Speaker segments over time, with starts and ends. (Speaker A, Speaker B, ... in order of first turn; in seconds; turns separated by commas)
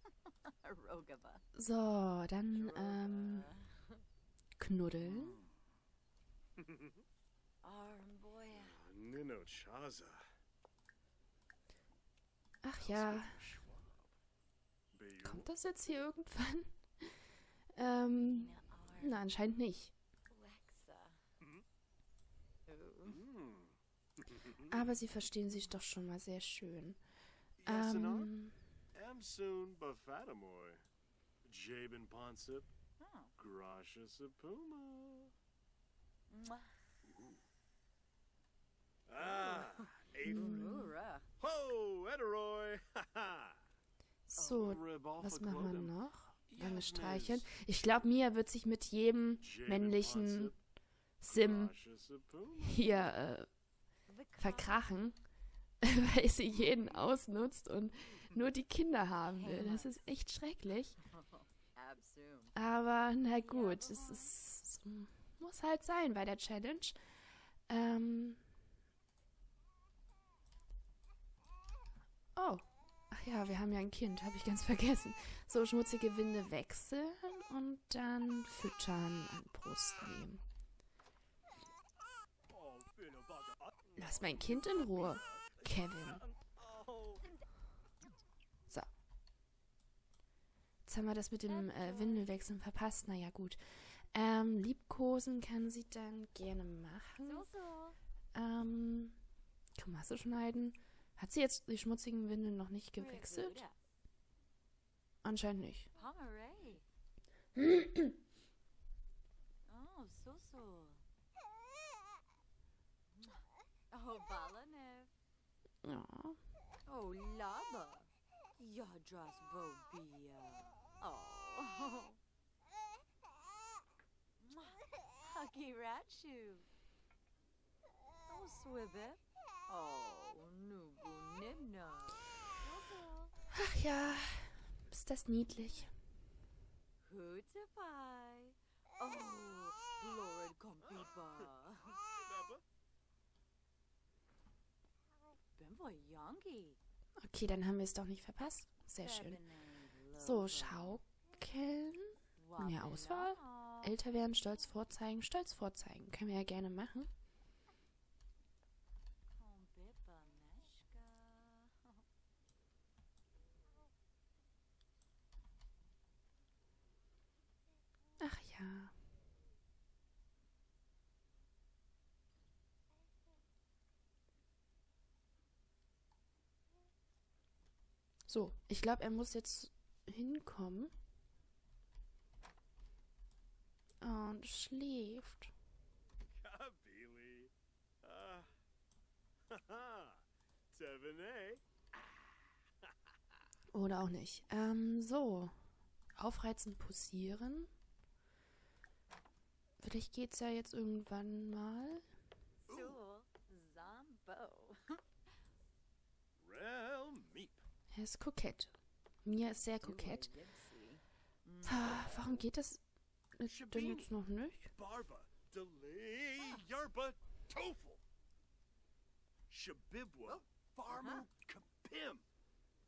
Speaker A: 0.5-1.4, Speaker B: 1.5-3.5, Speaker A: 2.5-4.0, Speaker B: 4.6-5.4, Speaker C: 5.0-5.5, Speaker C: 6.6-7.0, Speaker A: 7.6-8.8, Speaker C: 8.5-10.2, Speaker B: 12.6-13.5, Speaker C: 12.8-14.1, Speaker C: 14.9-15.5, Speaker B: 15.2-17.1, Speaker B: 17.7-19.9, Speaker A: 18.2-19.2, Speaker A: 20.3-21.2, Speaker A: 22.7-23.2, Speaker C: 23.1-23.7, Speaker C: 24.3-24.6, Speaker B: 24.6-27.0, Speaker C: 27.6-28.3, Speaker B: 27.6-28.6, Speaker C: 28.9-30.8, Speaker C: 31.4-32.7, Speaker A: 33.0-33.3, Speaker C: 33.4-35.3, Speaker A: 36.3-36.7, Speaker C: 37.0-37.4, Speaker C: 39.1-40.8, Speaker A: 39.2-41.3, Speaker B: 40.3-40.9, Speaker C: 41.4-43.6, Speaker B: 44.2-50.5, Speaker C: 44.5-45.9, Speaker C: 46.5-47.5, Speaker C: 49.4-50.6, Speaker B: 51.2-51.7, Speaker C: 51.3-53.0, Speaker B: 52.6-53.5, Speaker A: 54.1-54.9, Speaker B: 54.4-55.2, Speaker B: 55.8-61.0, Speaker C: 56.6-56.9, Speaker A: 59.3-60.0, Speaker A: 61.1-62.5, Speaker B: 62.5-67.0, Speaker A: 63.3-64.3, Speaker B: 67.7-68.4, Speaker B: 72.3-80.4, Speaker C: 82.5-87.2, Speaker B: 84.0-86.2, Speaker B: 90.8-97.5, Speaker A: 91.5-92.5, Speaker A: 97.2-98.0, Speaker B: 98.3-99.2, Speaker B: 99.8-103.6, Speaker A: 103.0-103.8, Speaker B: 105.2-105.9, Speaker A: 105.9-106.8, Speaker B: 107.5-108.0, Speaker A: 109.7-111.0, Speaker A: 113.9-115.1, Speaker B: 115.8-116.4, Speaker A: 116.9-122.2, Speaker A: 124.4-126.7, Speaker A: 128.3-133.3, Speaker B: 133.5-135.9, Speaker A: 137.0-142.0, Speaker C: 140.8-142.6, Speaker A: 145.6-146.8, Speaker B: 147.2-149.4, Speaker A: 149.0-151.0, Speaker B: 150.2-157.1, Speaker A: 152.4-153.9, Speaker A: 159.3-162.0, Speaker B: 168.2-168.9, Speaker B: 178.3-180.9, Speaker B: 184.0-185.5, Speaker C: 186.3-188.5, Speaker C: 189.5-191.6, Speaker B: 193.7-195.5, Speaker B: 196.2-197.7, Speaker B: 199.8-202.0, Speaker A: 202.7-205.0, Speaker C: 202.7-203.0, Speaker C: 206.4-207.6, Speaker B: 207.9-208.7, Speaker B: 209.2-210.3, Speaker A: 209.8-212.2, Speaker B: 211.6-212.8, Speaker B: 213.4-214.7, Speaker C: 213.4-214.1, Speaker C: 214.7-218.0, Speaker C: 219.5-222.2, Speaker A: 220.3-221.2